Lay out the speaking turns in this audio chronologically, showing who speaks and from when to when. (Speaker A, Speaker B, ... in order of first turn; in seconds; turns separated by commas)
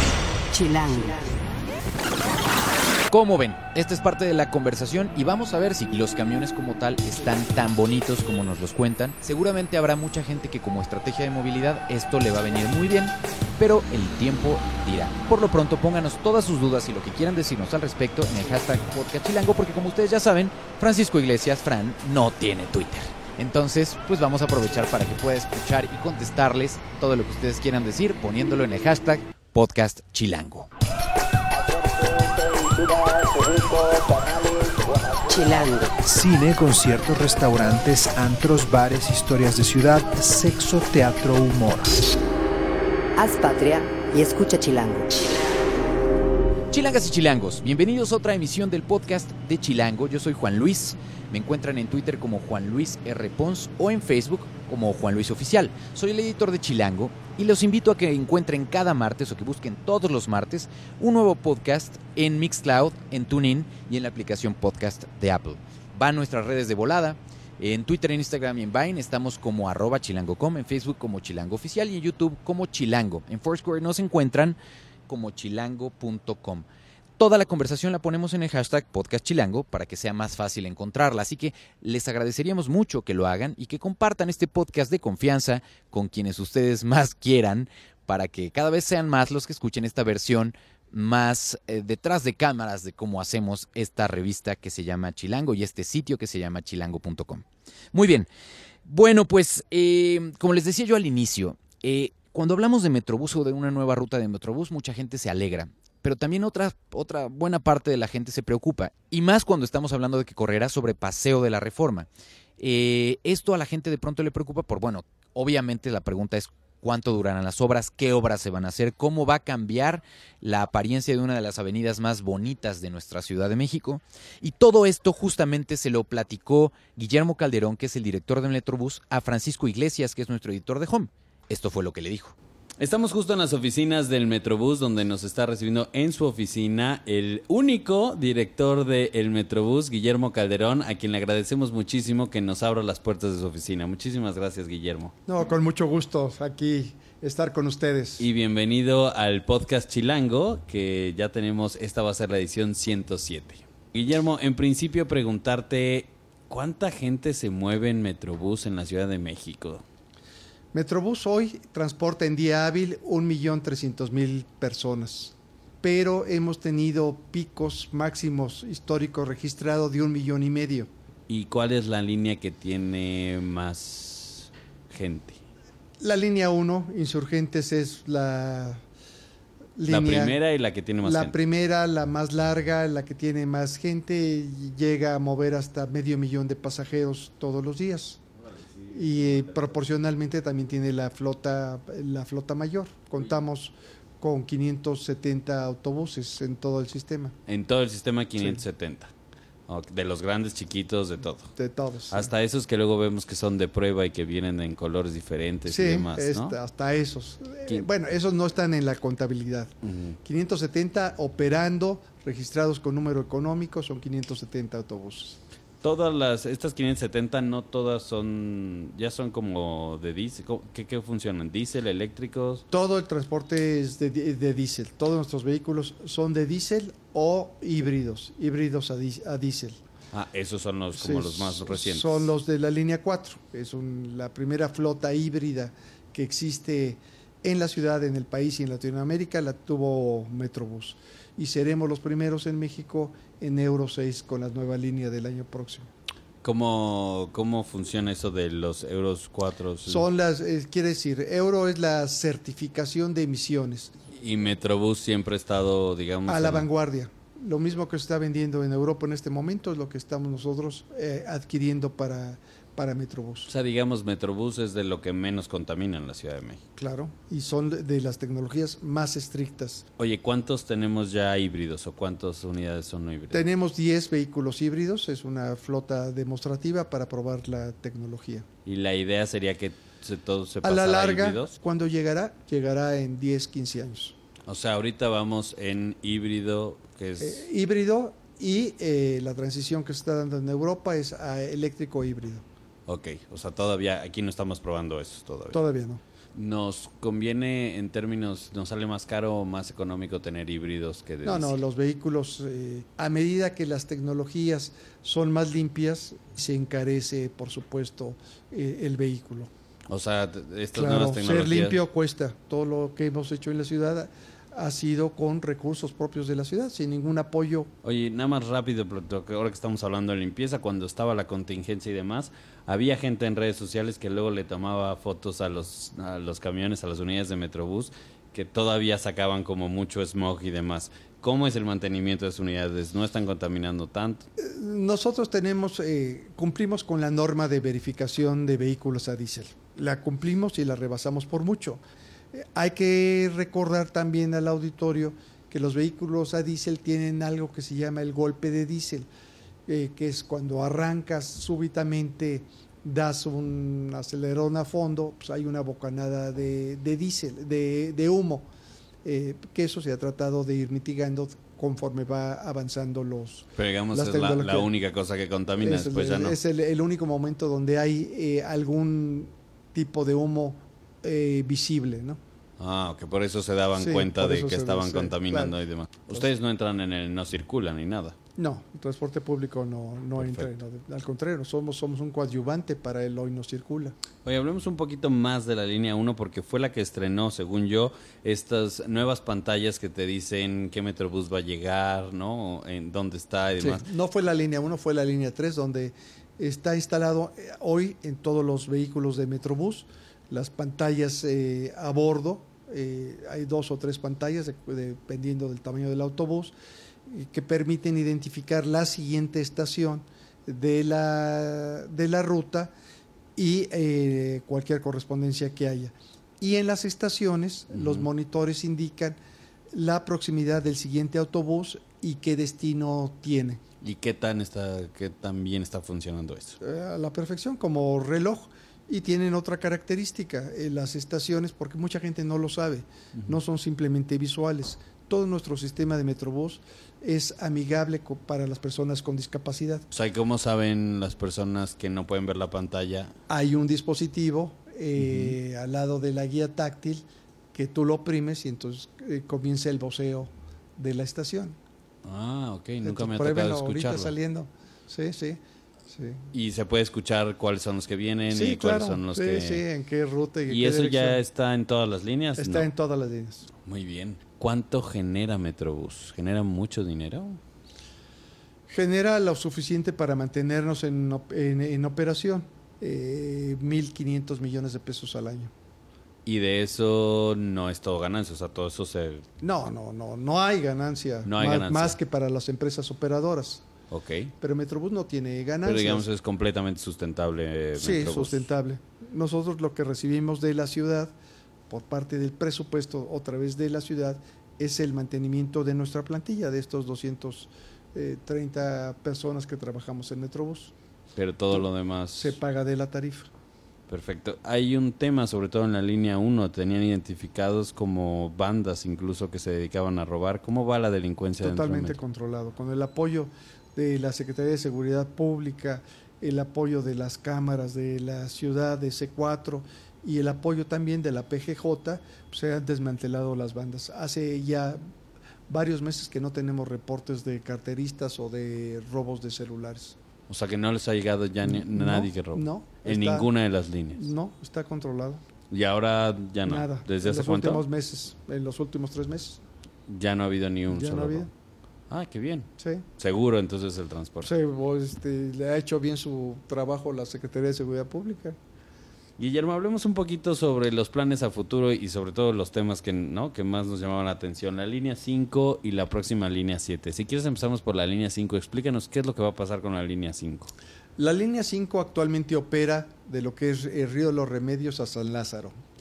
Speaker A: 0.5-1.3, Speaker B: 3.1-30.7, Speaker A: 35.2-36.0, Speaker C: 36.0-42.0, Speaker A: 43.2-45.1, Speaker B: 46.7-74.6, Speaker B: 75.1-76.7, Speaker B: 77.2-98.3, Speaker B: 98.9-112.1, Speaker B: 112.6-132.3, Speaker D: 132.8-145.1, Speaker E: 145.3-148.3, Speaker D: 148.2-159.8, Speaker E: 160.7-170.9, Speaker D: 171.3-175.4, Speaker E: 176.0-178.8, Speaker E: 179.8-180.4, Speaker D: 179.9-181.3, Speaker E: 181.0-188.2, Speaker E: 188.9-197.4, Speaker D: 197.5-199.1, Speaker D: 199.7-201.5, Speaker E: 201.6-202.3, Speaker D: 202.1-206.6, Speaker E: 205.7-215.4, Speaker D: 209.8-210.2, Speaker D: 215.8-222.7, Speaker E: 222.7-229.8, Speaker D: 230.1-232.3, Speaker E: 230.9-245.9, Speaker D: 246.4-250.1, Speaker E: 249.9-253.9, Speaker D: 254.1-256.7, Speaker E: 256.3-263.5, Speaker D: 263.5-266.6, Speaker E: 266.8-269.9, Speaker D: 270.0-273.5, Speaker E: 273.3-278.5, Speaker D: 278.7-281.6, Speaker E: 280.6-284.1, Speaker D: 284.5-287.5, Speaker E: 287.2-292.4, Speaker D: 292.9-295.6, Speaker E: 295.5-296.0, Speaker D: 296.4-301.6, Speaker E: 301.2-309.5, Speaker D: 309.9-311.8, Speaker E: 310.7-317.7, Speaker D: 317.8-334.3, Speaker E: 334.4-349.1, Speaker E: 349.7-358.5, Speaker E: 359.0-364.7, Speaker D: 363.6-366.4, Speaker E: 365.6-372.2, Speaker D: 372.6-378.2, Speaker E: 373.8-375.6, Speaker E: 378.4-384.0, Speaker D: 380.2-380.5, Speaker D: 384.2-393.9, Speaker E: 393.6-406.5, Speaker E: 407.1-412.7, Speaker E: 413.4-419.2, Speaker D: 417.7-418.1, Speaker E: 419.7-423.6, Speaker D: 423.8-426.6, Speaker E: 426.6-439.9, Speaker D: 439.9-443.1, Speaker E: 443.3-451.6, Speaker D: 445.0-445.4, Speaker D: 452.0-454.1, Speaker E: 452.8-456.2, Speaker D: 456.3-459.6, Speaker E: 458.3-461.2, Speaker D: 460.5-462.7, Speaker E: 462.4-463.5, Speaker D: 463.5-467.4, Speaker E: 468.7-475.5, Speaker D: 476.2-479.3, Speaker E: 479.4-483.6, Speaker D: 481.2-482.0, Speaker D: 483.9-484.3, Speaker E: 484.4-486.1, Speaker D: 485.6-488.5, Speaker E: 487.8-491.1, Speaker E: 491.7-500.7, Speaker D: 501.2-502.4, Speaker E: 502.1-503.3, Speaker D: 503.9-512.0, Speaker E: 511.4-524.8, Speaker E: 525.5-530.0, Speaker D: 530.3-534.1, Speaker E: 531.5-533.3, Speaker E: 533.9-535.2, Speaker D: 535.5-537.6, Speaker E: 536.5-539.4, Speaker D: 539.9-541.3, Speaker E: 540.7-541.3, Speaker D: 541.9-544.3, Speaker E: 542.6-542.9, Speaker E: 544.2-548.4, Speaker D: 549.2-560.5, Speaker E: 561.0-565.5